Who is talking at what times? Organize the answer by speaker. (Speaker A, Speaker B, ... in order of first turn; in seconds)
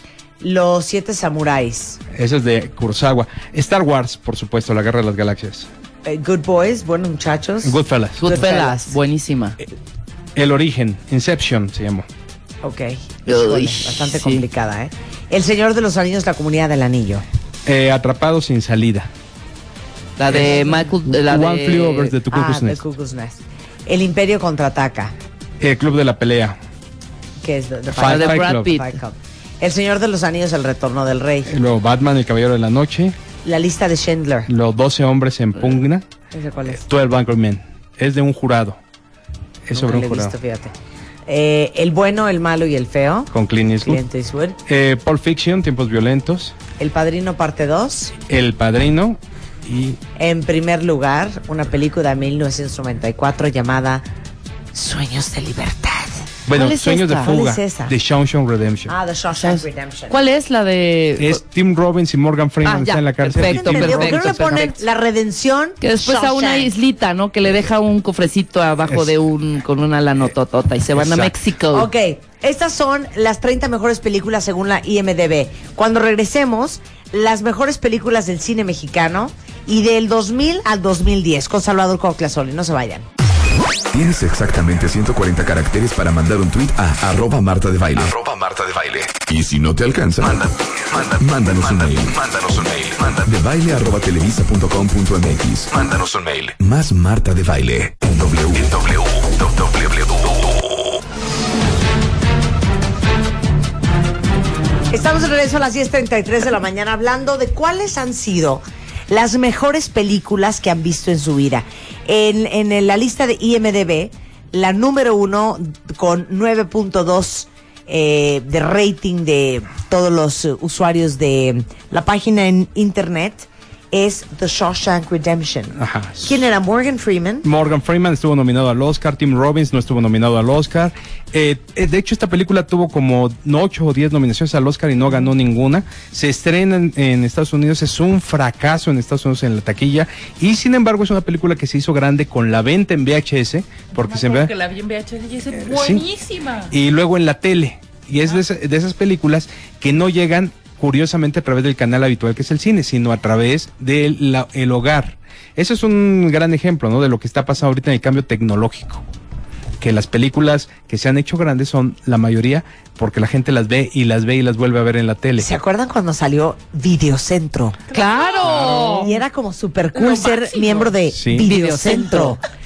Speaker A: 0.4-2.0, 6.0-8.9, 12.6-17.2, 20.3-20.7, 22.3-25.1, 27.4-31.5, 33.4-34.5, 36.3-36.8, 39.7-40.7, 41.3-43.3, 43.8-44.6, 46.8-48.1, 50.1-54.0, 54.7-56.3, 57.1-57.9, 58.9-60.2, 63.3-66.7, 71.7-83.1, 104.9-127.5, 165.4-167.8, 168.9-172.4
Speaker B: 2.1-5.7, 7.6-8.2, 10.3-12.1, 17.6-19.1, 20.3-22.8, 25.6-26.6, 27.9-28.8, 31.5-33.1, 34.5-36.1, 36.7-38.8, 39.6-40.3, 43.3-44.0, 44.7-46.5, 48.3-50.0, 56.5-58.9, 61.2-64.7, 68.9-69.1, 71.0-71.3, 125.8-126.4, 127.4-144.5, 145.5-146.0, 146.7-159.0, 159.8-165.5, 171.1-171.5
Speaker C: 8.2-9.6, 13.2-14.4, 20.2-22.1, 28.0-28.9, 56.5-57.2, 59.4-61.4, 62.6-64.8, 65.8-71.9, 167.9-169.1, 171.4-172.4
Speaker D: 83.9-100.5
Speaker E: 144.0-146.7, 167.9-169.1, 170.0-170.9